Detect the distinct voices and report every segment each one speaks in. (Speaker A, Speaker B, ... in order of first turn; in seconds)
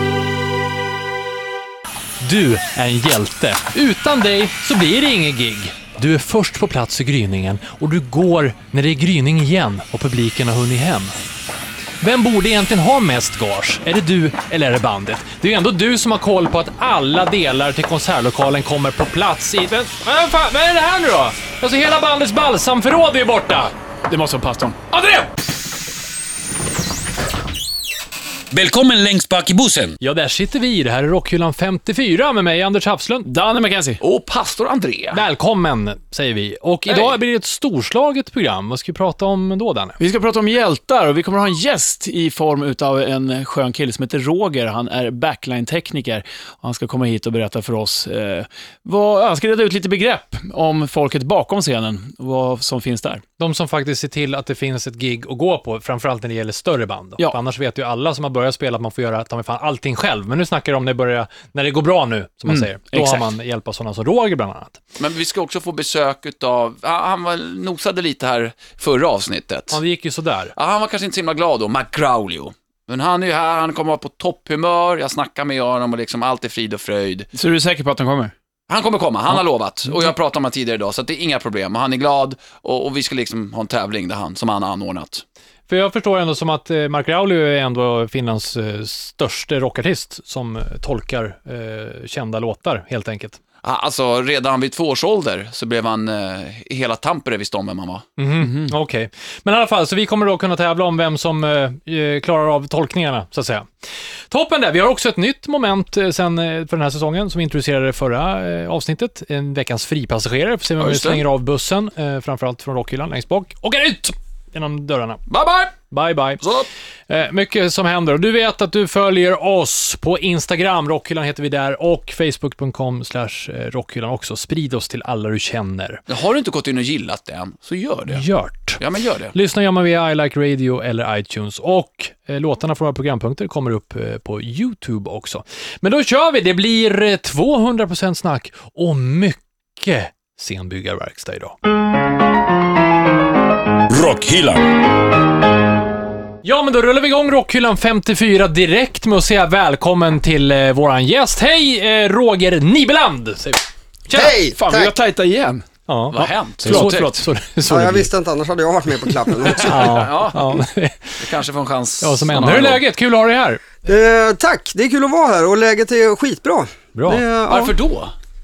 Speaker A: 2.2-11.1, 12.0-23.7, 30.0-33.3, 35.1-40.0, 53.4-64.8, 69.7-70.5, 85.7-93.4, 98.2-103.7, 104.3-115.2, 115.9-116.4, 117.1-126.0, 128.1-128.8, 129.3-141.6, 146.4-153.7, 155.9-158.1, 159.6-161.2, 162.0-163.6, 166.9-167.2
Speaker B: 24.1-24.8, 33.2-34.0, 40.0-53.2, 62.5-63.2, 77.3-78.3, 98.4-98.7, 154.1-155.6, 156.6-157.2
Speaker C: 28.5-30.0, 143.9-144.7
Speaker D: 34.0-35.2, 65.0-69.8, 70.5-77.3, 78.7-85.2, 93.6-98.1, 110.8-111.2, 115.3-115.7, 116.4-116.7, 126.1-128.2, 128.8-129.3, 156.1-157.2, 159.5-160.6, 161.2-162.8, 167.5-168.1
Speaker E: 154.1-154.9, 157.7-160.1, 163.8-167.8